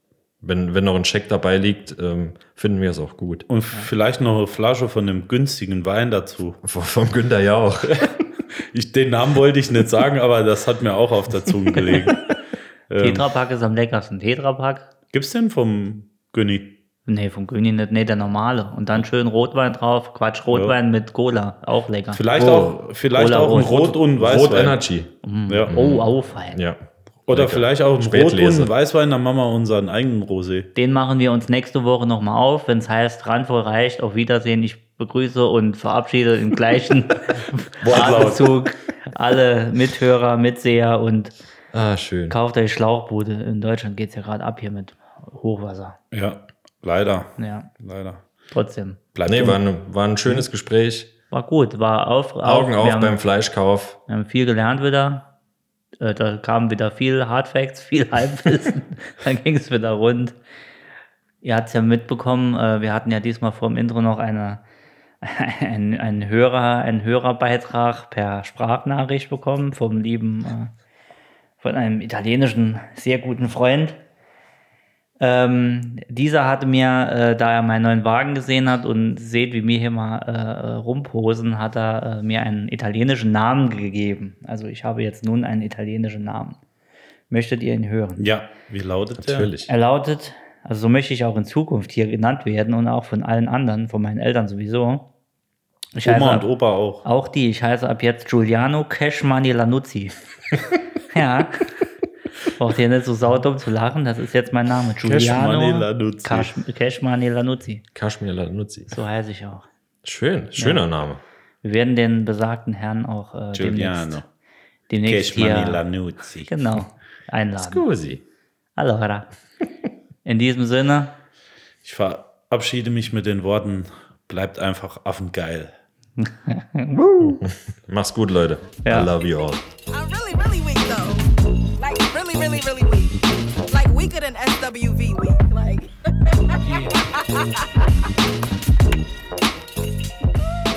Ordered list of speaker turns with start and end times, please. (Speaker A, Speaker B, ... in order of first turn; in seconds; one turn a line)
Speaker A: 0.4-3.5
Speaker B: 3.5-6.6
Speaker A: 6.6-8.1
Speaker B: 8.7-12.2
Speaker B: 12.9-13.2
Speaker C: 13.0-14.9
Speaker B: 15.1-16.8
Speaker C: 17.1-22.2
Speaker B: 20.5-20.8
Speaker B: 22.1-24.8
Speaker A: 22.4-22.8
Speaker C: 23.1-23.9
Speaker A: 23.9-25.1
Speaker C: 25.2-26.6
Speaker B: 25.5-25.7
Speaker A: 25.7-28.7
Speaker B: 27.3-30.7
Speaker C: 30.8-41.3
Speaker B: 37.8-38.5
Speaker A: 41.7-42.4
Speaker C: 42.3-46.0
Speaker B: 46.1-48.2
Speaker C: 47.4-47.7
Speaker C: 48.5-49.0
Speaker B: 49.1-49.6
Speaker A: 49.3-51.1
Speaker C: 51.3-53.2
Speaker A: 52.4-54.0
Speaker C: 54.1-55.3
Speaker C: 56.0-60.4
Speaker C: 61.4-64.6
Speaker C: 65.2-70.7
Speaker C: 71.6-74.0
Speaker C: 75.2-86.6
Speaker C: 87.3-88.2
Speaker B: 88.2-89.5
Speaker A: 89.2-89.7
Speaker C: 89.7-95.0
Speaker C: 96.0-96.5
Speaker B: 96.0-97.0
Speaker C: 97.0-100.1
Speaker C: 101.1-101.7
Speaker C: 102.5-107.8
Speaker B: 105.0-106.5
Speaker A: 108.0-109.0
Speaker C: 108.9-109.7
Speaker A: 110.0-111.2
Speaker C: 110.6-110.8
Speaker C: 111.6-114.2
Speaker B: 113.5-114.2
Speaker C: 114.9-115.8
Speaker B: 115.1-116.5
Speaker C: 116.5-117.9
Speaker A: 117.6-118.2
Speaker C: 118.8-119.3
Speaker C: 120.2-121.1
Speaker B: 121.8-125.7
Speaker C: 126.2-127.4
Speaker A: 127.2-129.6
Speaker C: 128.8-129.1
Speaker D: 129.9-137.7